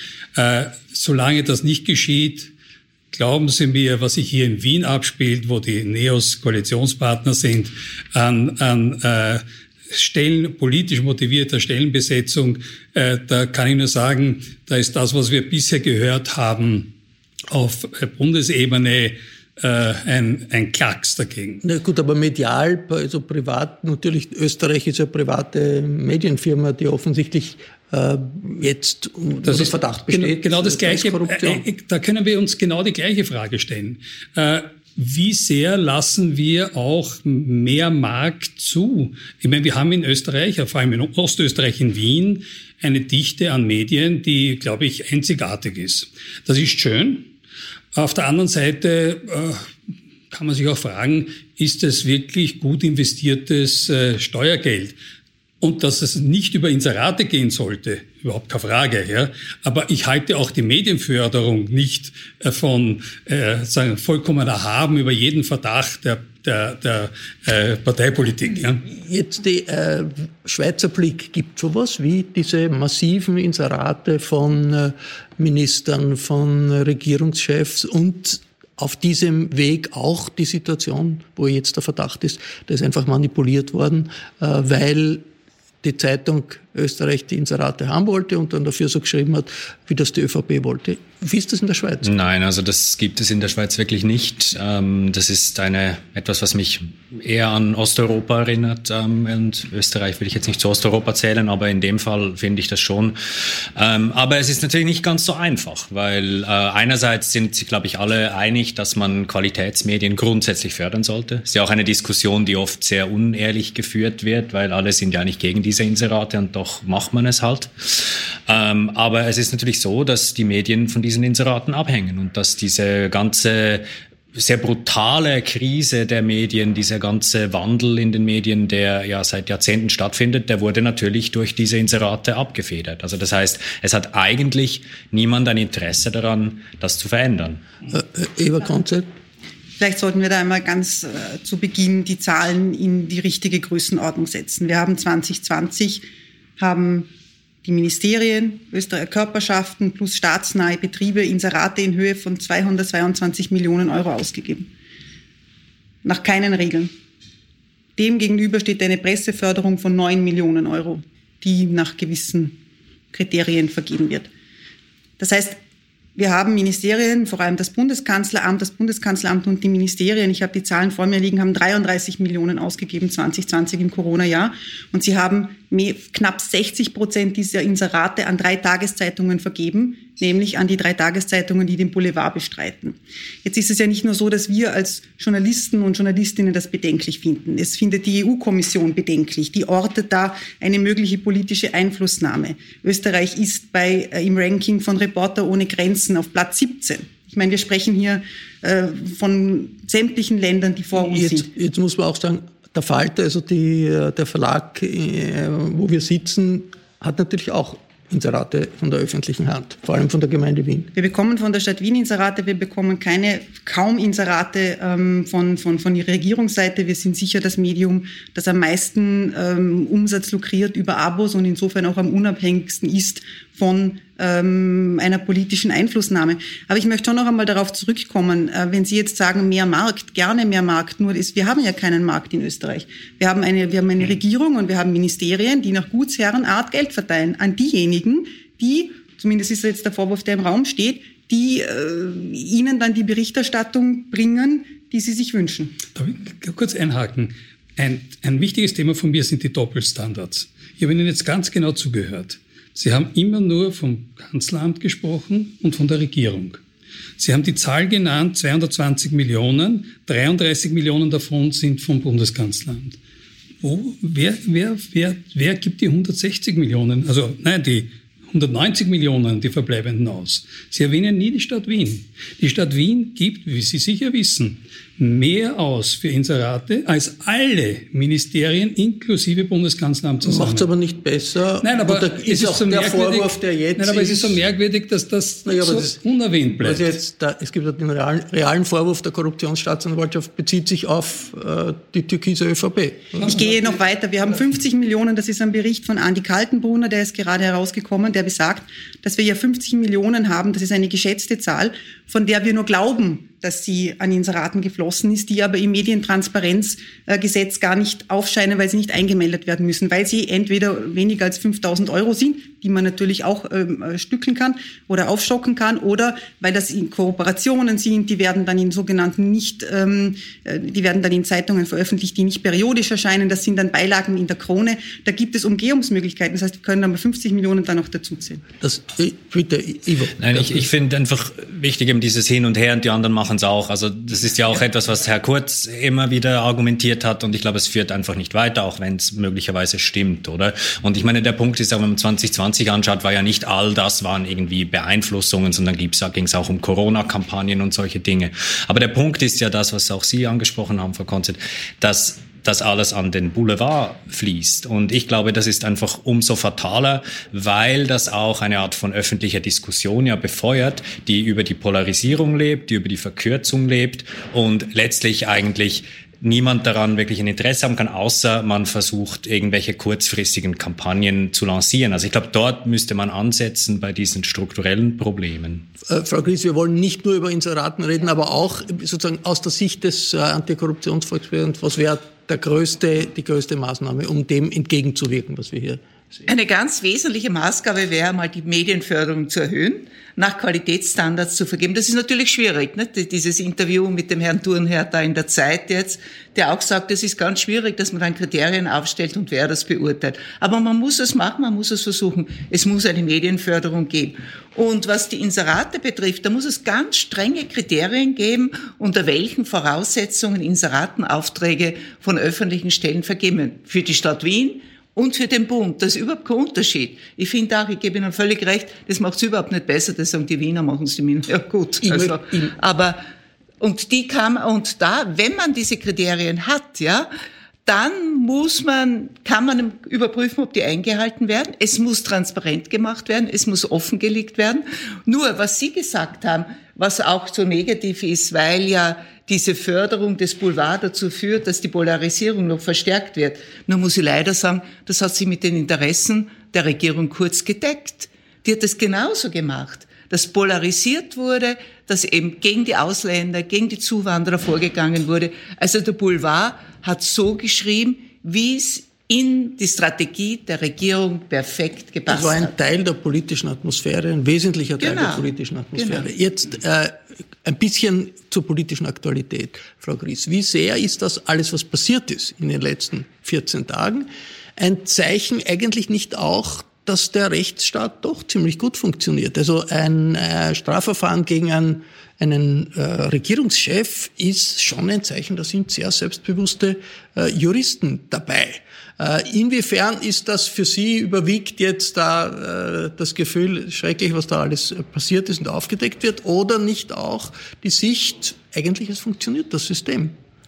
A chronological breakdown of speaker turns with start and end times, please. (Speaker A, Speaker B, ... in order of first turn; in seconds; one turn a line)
Speaker A: 0.3-2.5
Speaker A: 3.1-16.9
Speaker A: 17.5-21.6
Speaker B: 21.6-31.6
Speaker A: 29.4-47.3
Speaker A: 47.9-49.7
Speaker A: 50.3-55.0
Speaker A: 55.6-68.8
Speaker B: 68.9-85.2
Speaker B: 85.8-92.1
Speaker C: 92.0-137.6
Speaker B: 137.9-139.1
Speaker D: 139.8-146.1
Speaker D: 146.6-147.1
Speaker D: 147.6-154.7
Speaker D: 156.0-156.9
Speaker D: 158.0-162.6
Speaker D: 163.1-164.3
Speaker D: 165.2-165.6
Speaker D: 166.2-201.5
Speaker B: 200.9-210.9
Speaker D: 210.9-245.7
Speaker A: 245.9-256.6
Speaker A: 257.2-263.0
Speaker A: 263.6-280.7
Speaker B: 280.2-284.4
Speaker A: 281.6-286.9
Speaker B: 285.4-286.0
Speaker B: 286.5-293.5
Speaker D: 293.2-328.4
Speaker B: 328.6-330.7
Speaker C: 330.2-375.7
Speaker B: 375.8-385.8
Speaker E: 386.3-423.0
Speaker B: 421.8-422.5
Speaker E: 423.6-427.1
Speaker E: 427.7-462.5
Speaker B: 462.1-500.1
Speaker E: 464.8-466.1